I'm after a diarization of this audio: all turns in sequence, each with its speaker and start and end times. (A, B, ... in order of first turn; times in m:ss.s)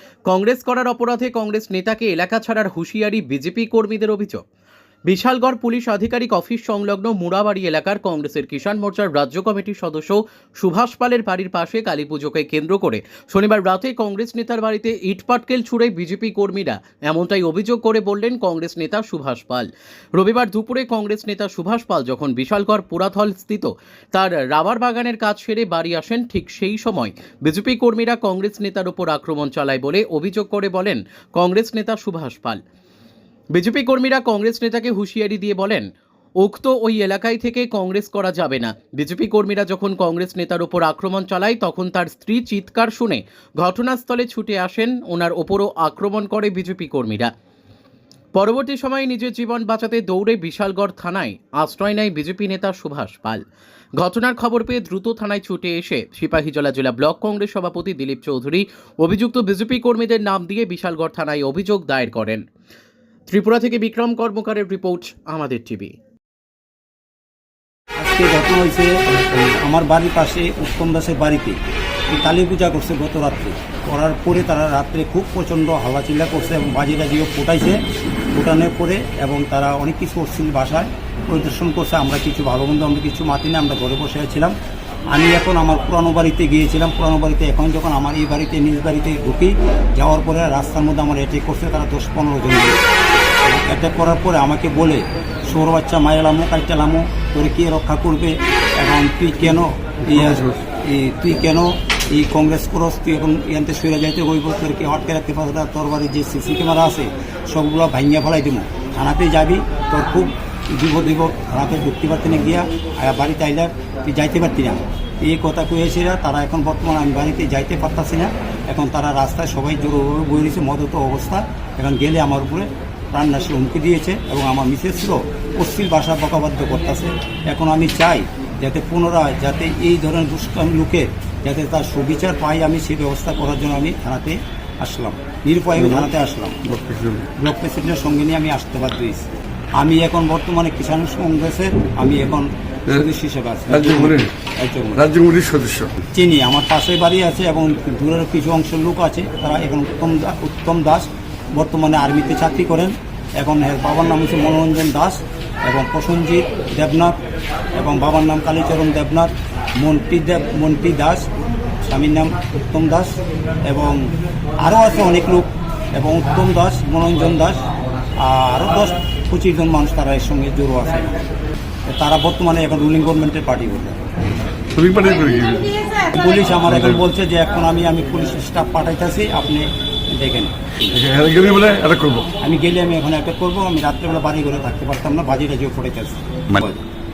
0:00.3-0:04.4 A
0:05.1-0:32.6 A
0:33.5-0:35.9 A
0:36.4-0:47.3 A
0:48.3-0:53.4 A
0:54.0-1:02.4 A
1:03.3-1:05.9 A
1:08.0-1:11.6 B
1:12.1-1:17.8 B
1:18.3-1:24.5 B
1:25.1-1:32.8 B
1:33.4-2:16.6 B
1:40.2-1:40.5 C
2:16.7-2:17.3 C
2:17.4-2:25.0 B
2:23.7-2:24.3 C
2:25.0-2:26.0 C
2:26.1-2:37.2 B
2:37.8-2:41.3 B
2:41.8-2:47.6 B
2:48.2-2:51.2 B
2:51.9-2:54.0 B
2:54.7-2:55.8 C
2:56.1-3:01.0 B
2:56.7-2:57.0 C
3:00.9-3:02.3 C
3:02.4-3:06.8 B